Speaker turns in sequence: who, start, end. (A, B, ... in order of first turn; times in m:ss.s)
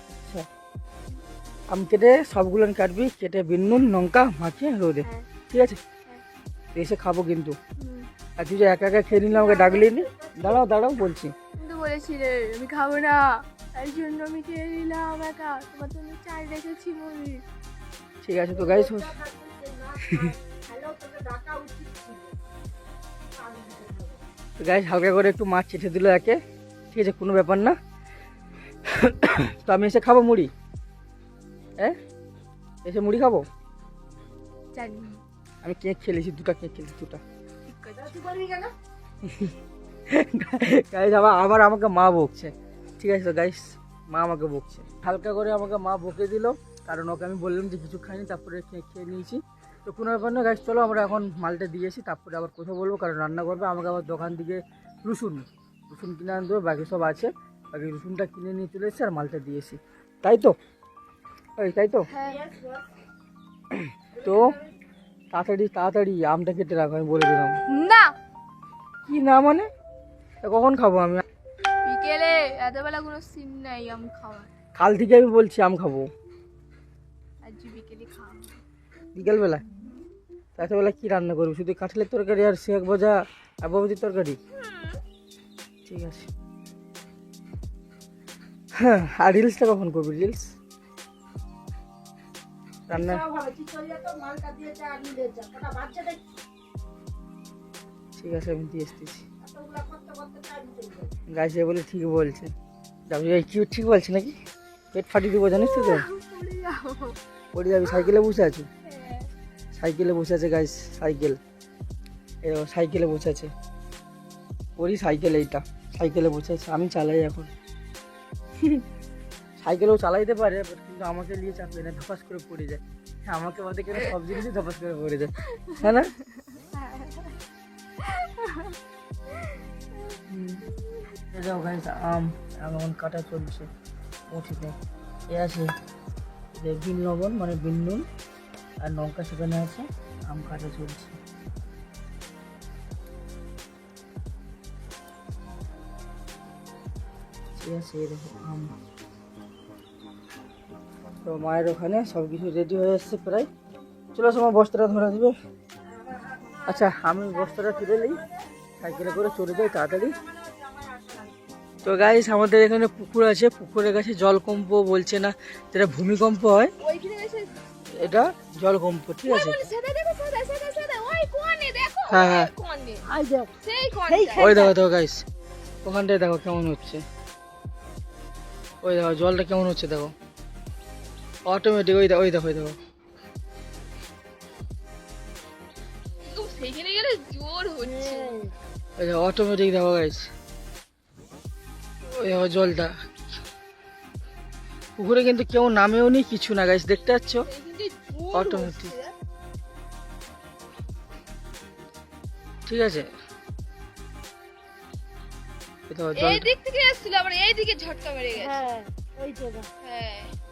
0:01.7-0:05.8 A
0:06.8-0:07.6 A
0:07.8-0:08.1 B
0:08.4-0:11.3 A
0:09.1-0:10.6 C
0:11.6-0:17.4 B
0:18.2-0:19.2 A
0:18.5-0:22.4 C
0:23.4-0:24.2 C
0:24.6-0:26.4 A
0:26.9-0:27.8 A
0:28.9-0:30.5 A
0:32.8-0:33.5 A
0:34.7-0:35.2 B
0:35.6-0:37.2 A
0:37.7-0:38.2 B
0:38.0-0:38.7 C
0:39.2-0:39.5 A
0:40.1-1:00.6 A
1:01.6-1:02.1 A
1:02.1-1:02.4 B
1:02.2-1:02.8 C
1:03.7-1:04.6 A
1:04.2-1:04.7 C
1:05.3-1:07.6 A
1:07.7-1:08.1 B
1:09.1-1:09.7 A
1:10.4-1:11.2 A
1:11.8-1:14.5 B
1:14.8-1:16.1 A
1:17.4-1:18.6 B
1:19.2-1:19.6 A
1:20.6-1:24.4 A
1:24.5-1:25.0 B
1:25.9-1:26.3 A
1:28.8-1:30.5 A
1:32.9-1:33.2 A
1:32.9-1:36.4 C
1:38.2-1:39.3 A
1:39.4-1:41.1 C
1:41.3-1:42.5 A
1:43.1-1:44.4 A
1:44.9-1:46.1 A
1:45.5-1:47.2 B
1:47.5-1:48.7 A
1:47.8-1:48.1 B
1:48.8-1:49.3 B
1:49.7-1:51.4 A
1:52.4-1:53.5 A
1:54.8-1:57.5 A
1:59.6-2:06.1 A
2:05.4-2:07.4 B
2:08.0-2:08.8 B
2:09.3-2:10.2 B
2:10.3-2:10.6 A
2:11.3-2:13.7 A
2:14.3-2:14.8 A
2:15.3-2:15.7 A
2:16.5-2:18.1 A
2:18.8-2:21.2 A
2:27.6-2:28.7 A
2:31.2-2:33.5 A
2:34.2-2:35.3 A
2:35.9-2:41.4 C
2:36.7-2:38.2 A
2:38.8-2:40.2 A
2:41.8-2:46.7 A
2:46.8-2:48.2 B
2:47.9-2:49.6 A
2:49.3-2:53.1 B
2:52.1-2:52.5 A
2:53.0-2:53.5 C
2:53.6-2:54.7 B
2:54.1-2:54.7 C
2:54.4-2:55.2 A
2:55.8-2:57.0 A
2:58.8-3:00.1 A
3:01.5-3:02.8 A
3:06.2-3:08.5 B
3:07.8-3:08.5 C
3:09.0-3:10.3 A
3:12.1-3:12.9 A
3:15.0-3:17.5 A
3:17.5-3:19.1 B
3:18.3-3:19.0 A
3:22.7-3:23.1 A
3:25.9-3:26.5 A
3:26.2-3:28.7 B
3:28.3-3:29.7 C
3:29.8-3:30.3 B